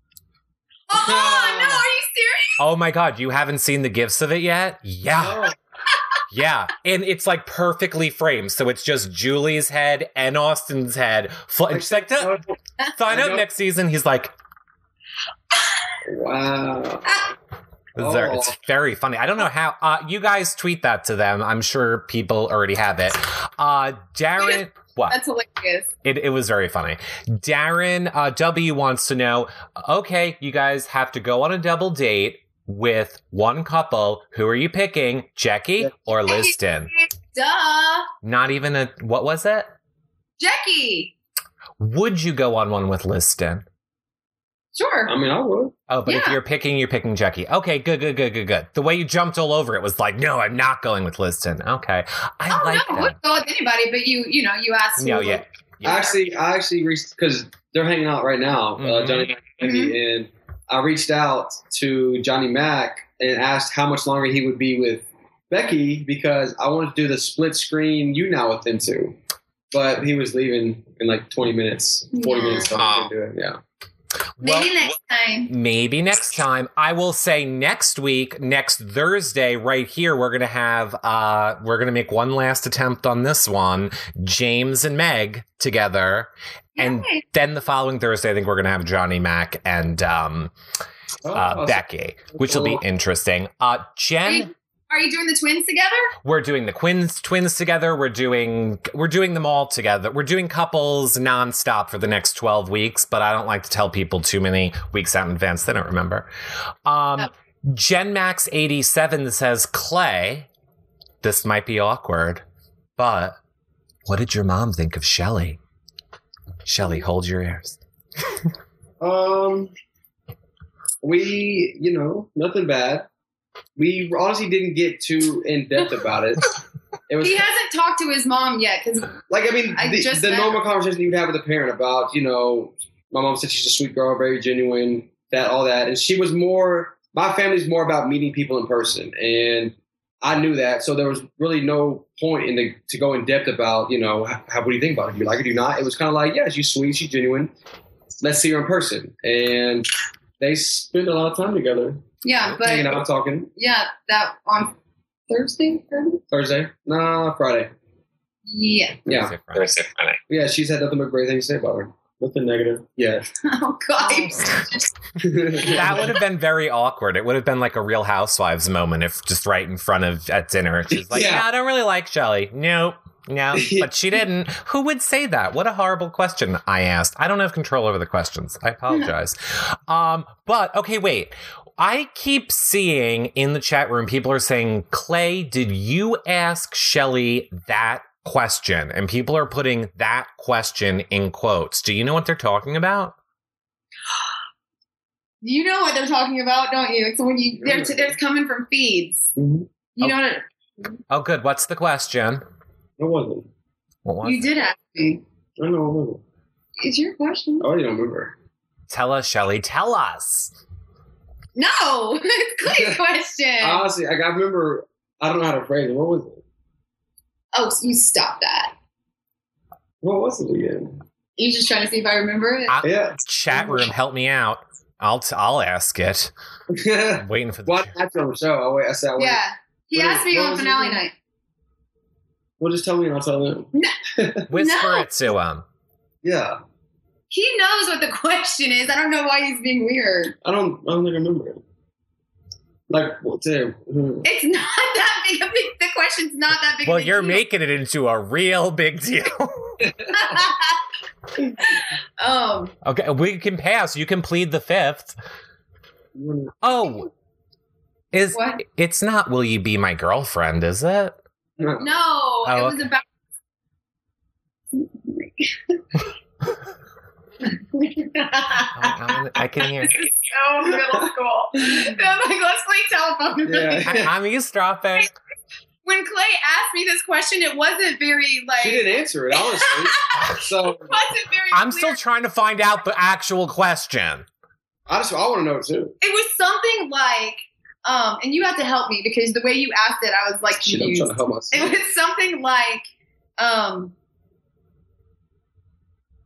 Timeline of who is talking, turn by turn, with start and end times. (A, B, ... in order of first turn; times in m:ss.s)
0:00.9-0:02.6 A
0:00.9-0:01.8 B
0:02.6-0:05.5 C
0:05.2-0:05.6 B
0:06.3-0:12.4 C
0:11.7-0:12.6 B
0:12.9-0:14.3 C
0:13.1-0:13.4 B
0:16.0-0:17.2 B
0:18.0-0:25.2 C
0:18.0-0:18.5 B
0:24.4-0:25.9 A
0:26.0-0:36.9 C
0:36.2-0:38.1 A
0:38.2-0:39.7 C
0:40.4-0:41.1 A
0:41.8-0:43.6 C
0:44.8-0:45.1 A
0:45.1-0:45.8 B
0:45.9-0:53.2 C
0:46.1-0:46.4 A
0:52.5-0:55.4 A
0:55.0-0:56.2 C
0:55.8-1:09.2 B
0:58.8-0:59.3 C
0:59.6-1:00.0 A
1:09.7-1:13.6 B
1:12.1-1:12.8 A
1:12.8-1:13.1 C
1:14.4-1:14.8 C
1:14.4-1:15.5 A
1:15.5-1:30.5 C
1:26.8-1:27.2 A
1:31.2-1:32.8 B
1:31.4-1:34.5 C
1:34.3-1:36.2 A
1:36.2-1:46.3 C
1:46.9-1:50.5 C
1:51.2-1:52.4 C
1:53.0-1:53.4 C
1:54.1-1:55.6 C
1:56.6-1:57.8 C
1:59.0-1:59.7 B
2:01.0-2:03.1 B
2:03.8-2:06.5 B
2:07.1-2:07.5 B
2:07.2-2:10.6 A
2:09.3-2:27.5 B
2:28.2-2:29.9 B
2:30.4-2:32.0 B
2:32.2-2:33.0 A
2:32.6-2:33.5 B
2:33.6-2:34.8 A
2:35.3-2:36.2 A
2:36.3-2:37.7 B
2:38.5-2:39.0 A
2:39.1-2:39.4 B
2:39.1-2:40.0 C
2:40.3-2:43.3 B
2:43.4-2:44.9 A
2:44.0-2:44.7 C
2:45.2-2:46.1 B
2:45.6-3:13.2 C
2:50.9-2:51.4 B
2:53.5-2:53.9 B
3:15.4-3:19.3 A
3:17.6-3:18.2 B
3:19.4-3:19.7 B
3:20.0-3:21.0 A
3:21.1-3:22.4 C
3:23.0-3:23.5 B
3:24.0-3:24.5 C
3:24.2-3:25.2 A
3:25.6-3:26.2 B
3:26.8-3:27.7 A
3:27.6-3:28.4 B
3:28.9-3:30.5 C
3:31.6-3:33.8 A
3:32.6-3:33.0 B
3:33.6-3:36.4 B
3:37.5-3:38.7 A
3:40.0-3:41.0 B
3:41.4-3:42.8 A
3:42.7-3:46.3 C
3:42.8-3:43.9 B
3:46.7-3:49.4 B
3:47.2-3:47.9 C
3:49.2-3:51.1 A
3:49.9-3:51.0 B
3:52.6-3:54.5 B
3:54.5-3:55.6 C
3:54.5-3:55.1 A
3:56.2-3:56.6 B
3:57.3-4:00.4 A
4:00.4-4:01.6 B
4:02.9-4:04.3 B
4:04.2-4:07.4 A
4:06.8-4:09.9 C
4:09.8-4:10.3 B
4:10.1-4:10.8 A
4:11.6-4:12.8 A
4:12.8-4:15.2 C
4:16.2-4:16.5 B
4:16.6-4:17.1 C
4:18.1-4:21.2 C
4:18.3-4:18.6 A
4:21.6-4:21.9 B
4:21.8-4:23.0 A
4:22.5-4:22.8 C
4:24.8-4:25.8 A
4:27.4-4:34.0 A
4:28.7-4:30.1 C
4:30.7-4:31.1 B
4:31.6-4:31.9 B
4:33.5-4:34.1 B
4:33.9-4:35.1 C
4:35.8-4:42.0 A
4:38.6-4:41.0 B
4:41.5-4:44.3 C
4:44.9-4:46.0 B
4:46.0-4:52.8 A
4:50.6-4:51.7 B
4:53.4-4:53.9 A